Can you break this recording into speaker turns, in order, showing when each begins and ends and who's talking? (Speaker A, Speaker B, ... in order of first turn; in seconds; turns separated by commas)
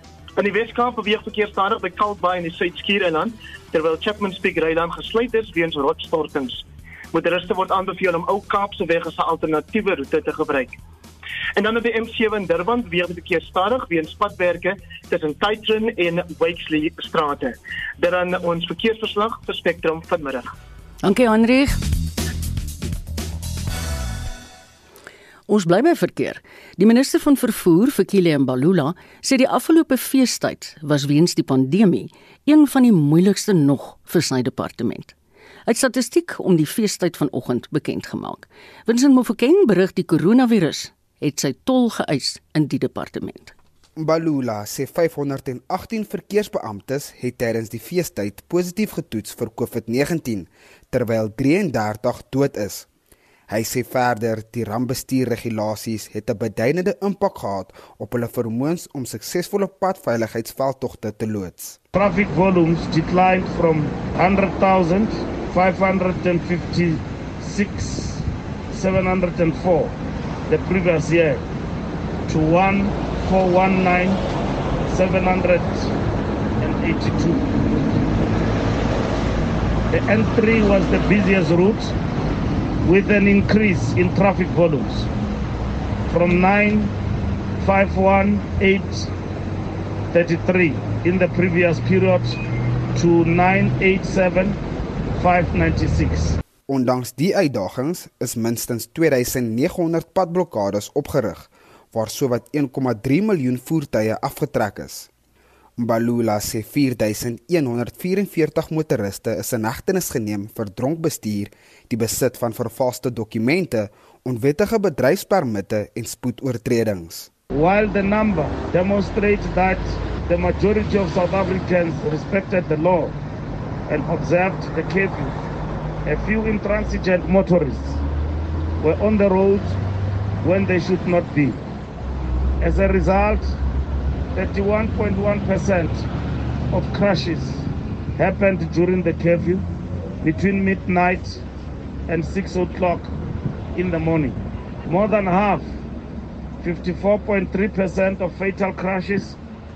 Speaker A: 0.4-10.8, Speaker A: 11.6-20.5, Speaker B: 21.0-21.8, Speaker B: 25.5-35.1, Speaker B: 35.7-43.5, Speaker C: 44.0-52.9, Speaker C: 53.5-61.8, Speaker D: 61.9-70.0, Speaker D: 70.5-71.4, Speaker D: 72.3-74.2, Speaker D: 74.9-75.9, Speaker D: 76.6-77.5, Speaker D: 79.9-82.0, Speaker D: 82.8-85.1, Speaker D: 86.1-86.9, Speaker D: 87.6-89.1, Speaker D: 90.1-92.4, Speaker D: 92.9-94.6, Speaker D: 95.2-96.4, Speaker C: 96.7-105.1, Speaker C: 105.8-117.3, Speaker D: 117.5-123.2, Speaker D: 123.9-125.3, Speaker D: 126.0-128.0, Speaker D: 128.8-129.8, Speaker D: 130.4-131.6, Speaker D: 132.6-133.6, Speaker D: 134.3-136.1, Speaker D: 136.7-139.7, Speaker D: 140.2-141.4, Speaker D: 142.1-143.1, Speaker D: 143.7-145.8, Speaker D: 146.6-149.4